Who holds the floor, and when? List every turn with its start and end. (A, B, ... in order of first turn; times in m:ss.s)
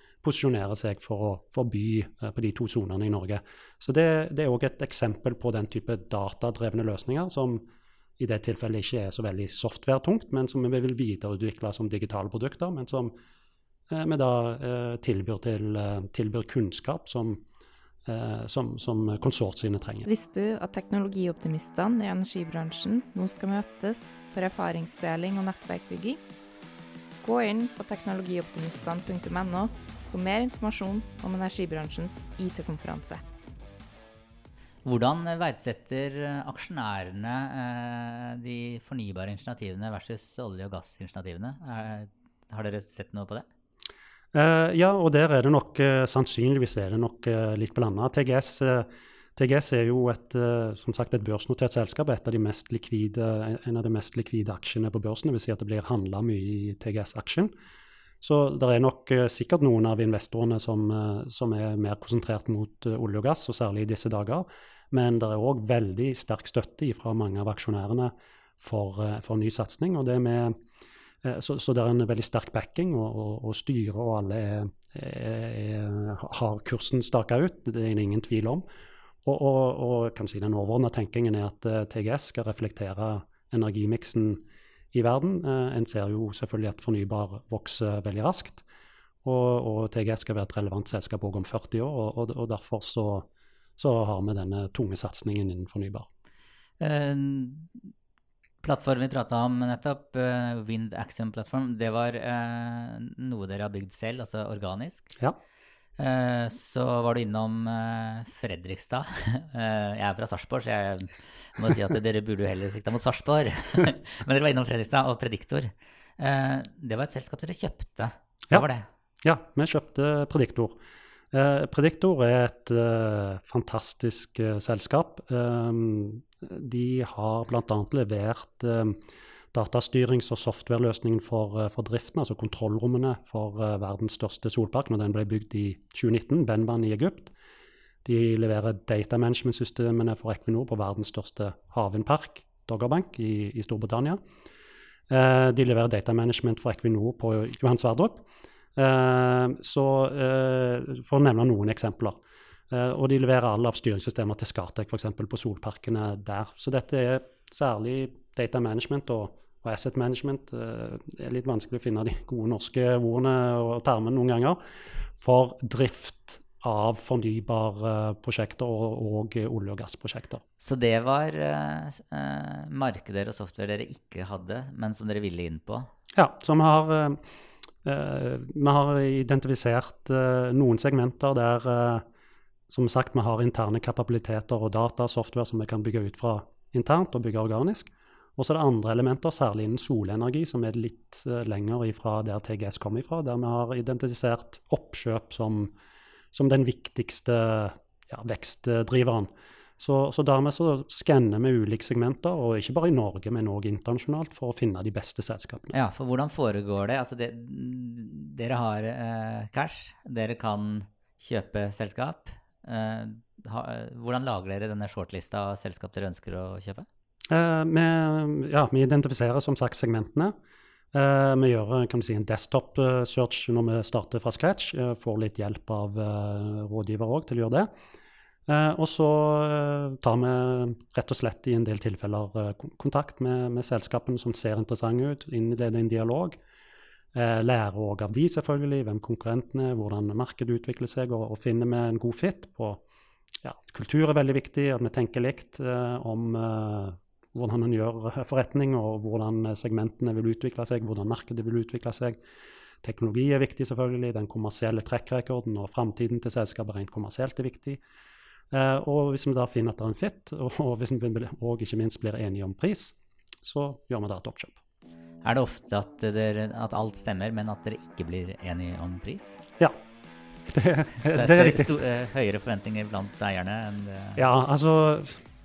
0:00.2-0:07.6 A
0:08.2-0:13.1 A
0:13.9-0:17.4 A
0:18.0-0:20.1 A
0:20.0-0:26.2 B
0:27.2-0:33.2 B
0:34.8-0:43.4 C
0:44.3-0:57.5 A
0:58.2-1:10.6 A
1:11.2-1:18.6 A
1:19.2-1:24.4 A
1:24.9-1:28.6 A
1:29.2-1:36.1 A
1:36.8-1:37.8 C
1:38.6-1:45.1 C
1:46.0-1:58.9 C
1:59.2-2:00.8 A
2:01.3-2:09.0 A
2:09.5-2:17.3 A
2:18.0-2:24.2 A
2:25.1-2:32.2 A
2:32.7-2:44.6 A
2:45.2-2:50.4 A
2:50.6-2:55.9 C
2:56.1-2:57.2 A
2:57.8-3:02.0 A
3:02.7-3:15.7 A
3:16.3-3:25.7 A
3:25.7-3:36.9 C
3:37.3-3:40.3 A
3:40.9-3:47.7 A
3:48.5-3:56.4 A
3:57.1-4:02.8 A
4:03.4-4:12.2 A
4:12.8-4:17.8 A
4:18.5-4:24.6 A
4:25.2-4:29.4 C
4:30.4-4:31.7 A
4:31.0-4:34.2 C
4:34.2-4:35.2 A